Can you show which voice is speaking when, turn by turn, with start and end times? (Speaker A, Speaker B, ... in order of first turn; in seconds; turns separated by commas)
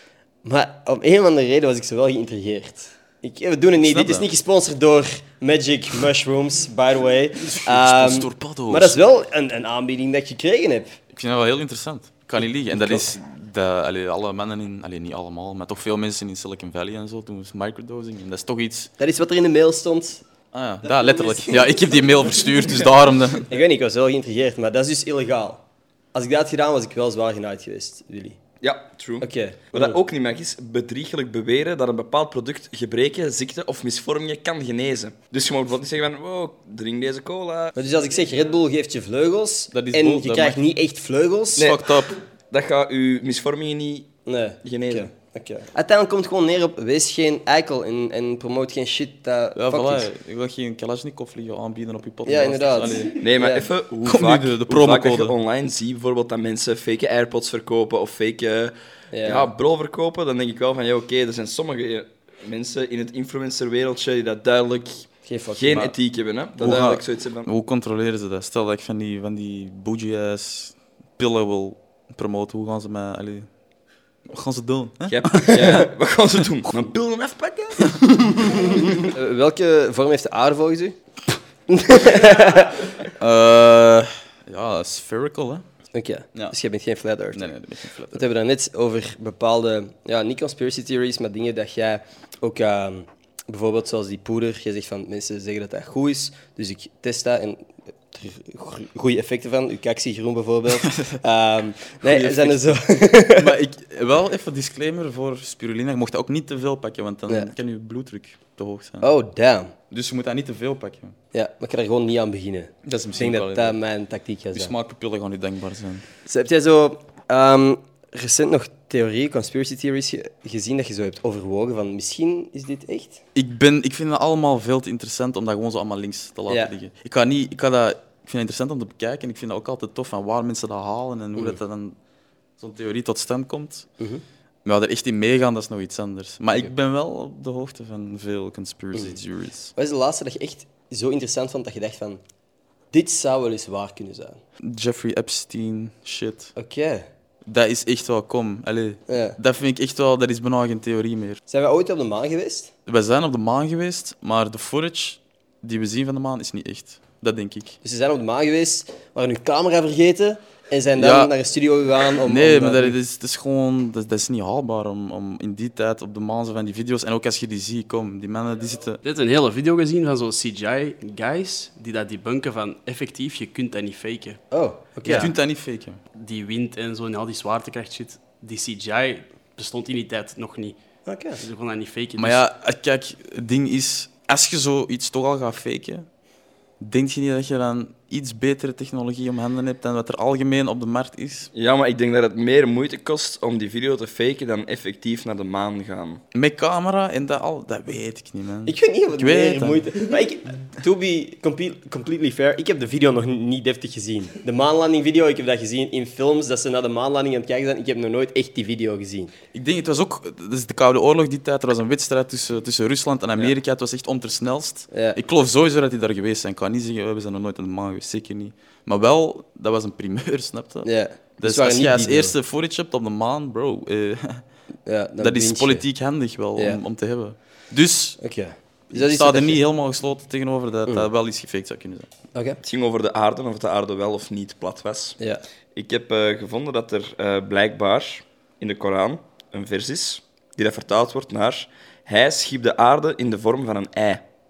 Speaker A: 0.4-11.0, Speaker B: 3.8-4.3, Speaker B: 7.4-9.0, Speaker B: 11.1-18.9, Speaker A: 19.0-20.2, Speaker B: 20.5-23.5, Speaker A: 20.9-21.8, Speaker A: 23.5-25.6, Speaker A: 26.1-28.4, Speaker C: 28.6-37.7, Speaker A: 29.2-30.0, Speaker A: 37.8-41.8, Speaker B: 39.7-40.6, Speaker B: 41.5-42.2, Speaker C: 42.5-44.1, Speaker A: 44.2-50.1, Speaker C: 44.6-45.1, Speaker B: 49.5-53.2, Speaker A: 52.2-53.7, Speaker C: 53.2-67.5, Speaker B: 54.0-55.3, Speaker A: 59.1-59.5, Speaker A: 65.2-65.9, Speaker B: 66.6-73.5, Speaker B: 74.3-75.8, Speaker C: 75.1-78.0, Speaker A: 78.2-81.0, Speaker A: 81.7-82.9, Speaker B: 83.2-85.6, Speaker A: 85.9-87.5, Speaker B: 87.3-88.2, Speaker A: 88.1-103.5, Speaker B: 100.9-101.2, Speaker B: 102.0-109.1, Speaker A: 109.0-109.7, Speaker B: 109.9-111.2, Speaker A: 111.3-114.7, Speaker B: 112.8-113.8, Speaker B: 114.5-116.0, Speaker A: 116.2-123.2, Speaker B: 123.3-132.0, Speaker B: 132.6-133.9, Speaker B: 134.6-139.7, Speaker A: 139.8-142.2, Speaker A: 142.9-144.4, Speaker B: 144.6-146.5, Speaker A: 146.6-147.1, Speaker B: 147.4-151.4, Speaker A: 149.1-149.4, Speaker A: 151.5-152.7, Speaker B: 152.8-157.8, Speaker A: 157.8-162.9, Speaker B: 160.9-161.3, Speaker B: 162.2-169.0, Speaker D: 169.0-174.4, Speaker A: 174.5-175.3, Speaker B: 175.0-176.0, Speaker D: 176.1-180.8, Speaker A: 181.1-181.4, Speaker D: 181.4-182.4, Speaker B: 182.2-186.1, Speaker B: 186.8-191.5, Speaker C: 191.5-196.2, Speaker B: 196.3-199.9, Speaker A: 198.7-209.3, Speaker B: 209.5-224.4, Speaker A: 214.9-215.2, Speaker A: 220.8-222.3, Speaker A: 224.8-225.8, Speaker B: 225.2-228.2, Speaker A: 228.2-229.6, Speaker B: 228.9-232.1, Speaker C: 232.6-235.2, Speaker C: 235.7-244.2